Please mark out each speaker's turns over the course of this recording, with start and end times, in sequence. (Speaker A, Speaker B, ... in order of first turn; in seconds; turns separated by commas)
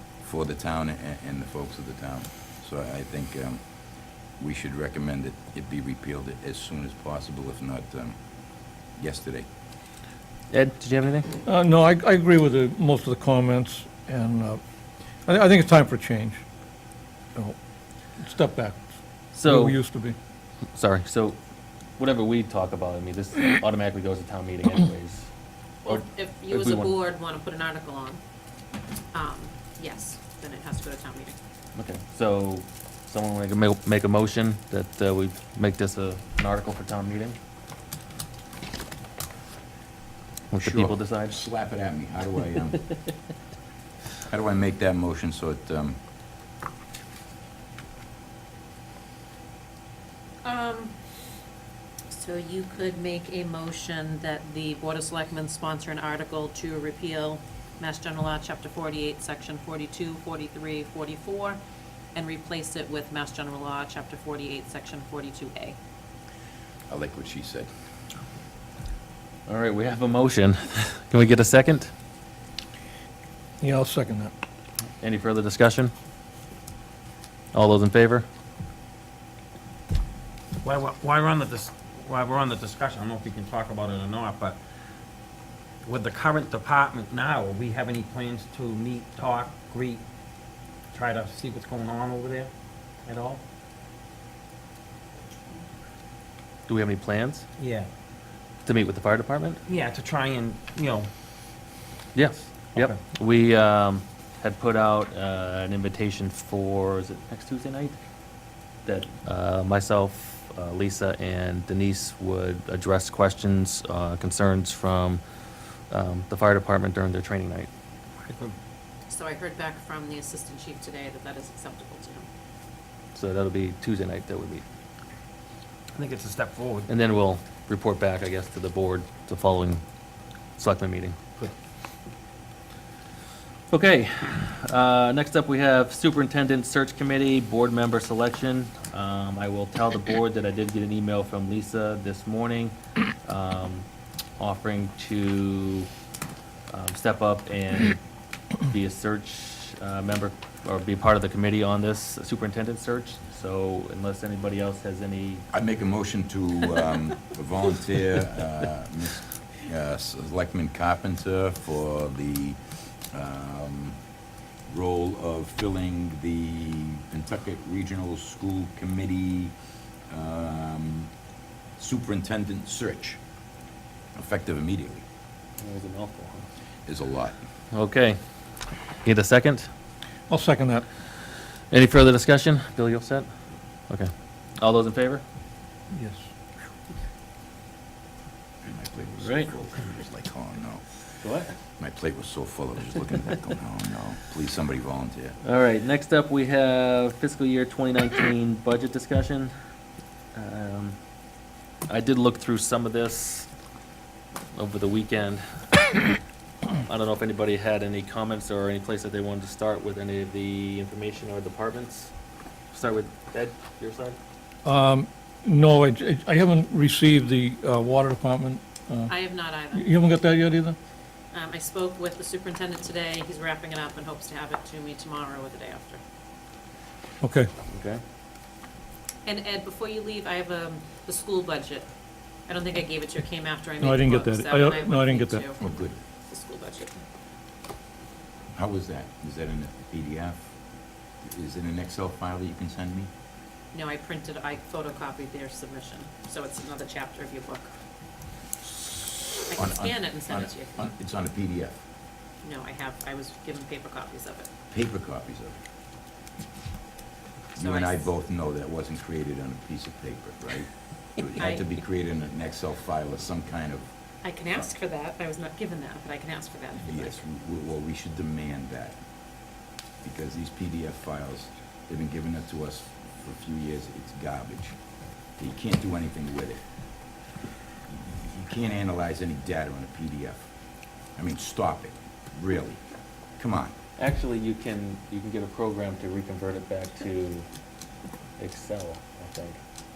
Speaker A: 0.2-8.2, Speaker A: 8.9-9.5, Speaker B: 10.5-11.3, Speaker C: 11.4-14.6, Speaker C: 15.2-16.4, Speaker C: 18.2-20.1, Speaker B: 19.3-19.8, Speaker B: 20.7-21.4, Speaker B: 22.0-25.3, Speaker D: 25.8-28.2, Speaker B: 25.9-26.9, Speaker D: 29.1-31.3, Speaker B: 31.7-37.4, Speaker B: 40.5-41.4, Speaker A: 40.6-42.9, Speaker A: 44.3-46.0, Speaker D: 50.4-51.0, Speaker D: 52.1-61.6, Speaker D: 62.1-65.8, Speaker A: 66.9-67.7, Speaker B: 69.5-71.9, Speaker C: 73.6-74.3, Speaker B: 75.0-75.9, Speaker B: 77.5-78.2, Speaker E: 80.6-84.6, Speaker E: 85.8-90.0, Speaker E: 90.9-92.5, Speaker E: 93.0-93.4, Speaker B: 96.7-97.4, Speaker E: 97.6-97.9, Speaker B: 98.7-99.6, Speaker E: 99.7-101.1, Speaker B: 102.1-108.0, Speaker B: 108.8-115.2, Speaker B: 115.9-117.7, Speaker E: 118.2-118.5, Speaker D: 119.1-122.2, Speaker B: 123.1-124.6, Speaker E: 125.9-126.9, Speaker B: 126.9-129.8, Speaker B: 130.6-131.2, Speaker B: 133.7-143.8, Speaker B: 144.4-145.9, Speaker B: 146.7-148.0, Speaker B: 148.6-155.4, Speaker A: 155.5-164.0, Speaker A: 164.7-171.1, Speaker A: 171.8-173.2, Speaker A: 174.2-175.0, Speaker B: 175.6-176.5, Speaker A: 176.8-177.4, Speaker B: 177.7-178.2, Speaker B: 179.0-179.7, Speaker C: 180.3-180.8, Speaker B: 181.7-183.3, Speaker B: 183.9-185.2, Speaker C: 185.9-186.3, Speaker A: 188.6-191.1, Speaker B: 189.2-189.5, Speaker B: 191.2-191.5, Speaker A: 191.8-195.4, Speaker B: 195.4-199.5, Speaker B: 200.3-201.0, Speaker B: 201.9-203.5, Speaker B: 204.5-206.0, Speaker B: 206.8-212.1, Speaker B: 212.7-214.2, Speaker C: 214.6-219.2, Speaker D: 219.1-219.9, Speaker C: 219.7-220.8, Speaker D: 221.3-226.0, Speaker C: 227.2-227.5, Speaker B: 227.7-228.0, Speaker D: 229.2-231.9, Speaker D: 232.5-235.6, Speaker C: 233.8-235.5, Speaker A: 235.6-236.0, Speaker D: 236.3-237.0, Speaker A: 238.5-240.5, Speaker A: 241.2-243.1, Speaker D: 243.7-247.7, Speaker A: 248.7-251.8, Speaker D: 249.5-250.9, Speaker D: 252.4-254.5, Speaker A: 254.7-255.6, Speaker A: 257.6-263.9, Speaker D: 257.6-258.1, Speaker D: 261.4-261.6, Speaker D: 264.2-267.2, Speaker A: 266.8-269.0, Speaker A: 270.0-274.8, Speaker A: 275.4-276.6, Speaker A: 277.9-280.5, Speaker A: 281.1-282.8, Speaker A: 283.4-283.7, Speaker B: 284.0-287.4, Speaker B: 288.4-289.6